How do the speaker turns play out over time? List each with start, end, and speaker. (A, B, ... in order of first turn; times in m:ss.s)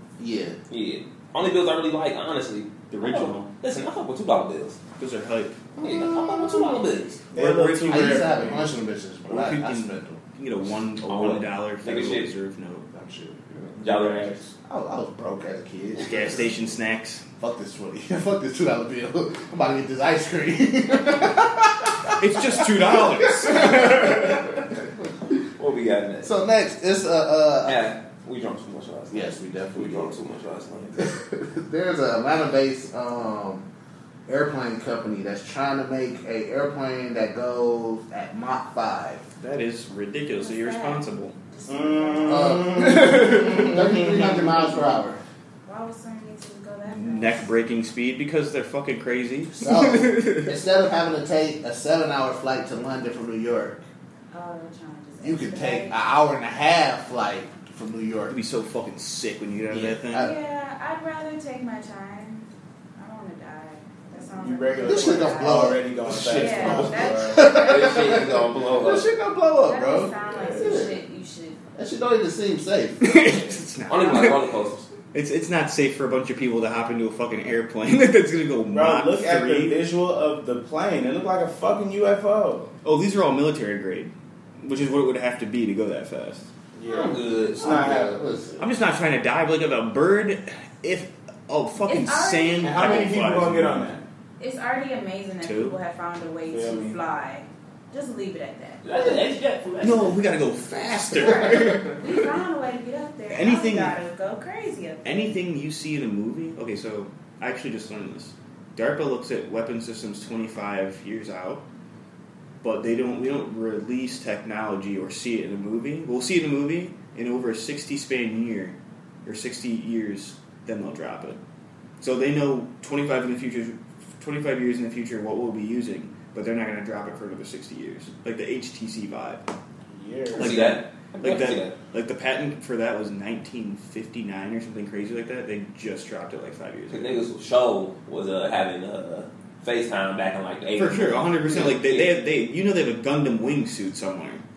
0:00.2-0:00.6 A
0:00.7-0:04.8 B
0:02.9-0:03.5 C
0:05.0-0:05.7 C
0:05.8-0:07.2 B
0:07.3-0:08.4 C
0:07.3-0:08.7 D
0:07.9-0:10.2 A
0:09.3-0:12.9 C
0:11.1-0:12.3 B
0:12.9-0:13.7 A
0:13.8-0:14.4 B
0:13.8-0:14.3 C
0:14.6-0:16.4 A
0:16.0-0:17.2 C
0:17.4-0:25.1 A
0:22.2-0:24.5 C
0:25.6-0:26.3 B
0:26.2-0:27.8 A
0:27.6-0:31.0 B
0:29.1-0:30.2 A
0:31.0-0:33.7 A
0:34.3-0:39.3 A
0:39.4-0:41.4 C
0:40.4-0:42.7 E
0:41.7-0:44.7 D
0:42.2-0:45.2 A
0:45.6-0:47.4 E
0:46.9-0:50.5 C
0:49.5-0:53.8 A
0:54.3-0:56.0 E
0:55.2-0:58.3 A
0:58.3-1:00.3 C
0:59.7-1:00.3 A
1:00.1-1:05.7 E
1:04.3-1:07.4 D
1:04.8-1:05.9 A
1:06.1-1:09.1 B
1:06.3-1:08.0 E
1:06.9-1:11.0 A
1:09.6-1:11.6 E
1:10.3-1:10.9 D
1:11.8-1:13.6 A
1:13.0-1:14.5 C
1:13.9-1:14.9 B
1:15.1-1:19.8 C
1:18.7-1:22.7 D
1:22.8-1:26.5 C
1:26.8-1:28.2 D
1:26.9-1:27.8 B
1:27.6-1:28.6 A
1:28.6-1:34.0 C
1:31.8-1:33.2 E
1:32.6-1:34.0 D
1:34.4-1:38.8 E
1:35.4-1:35.8 C
1:36.5-1:37.0 D
1:38.8-1:40.2 B
1:39.8-1:42.0 C
1:41.2-1:45.4 E
1:43.3-1:44.0 C
1:45.0-1:51.6 C
1:52.6-2:01.4 C
2:02.0-2:09.4 C
2:09.9-2:10.7 D
2:10.3-2:11.7 B
2:10.3-2:17.2 C
2:16.9-2:22.1 B
2:20.7-2:24.4 C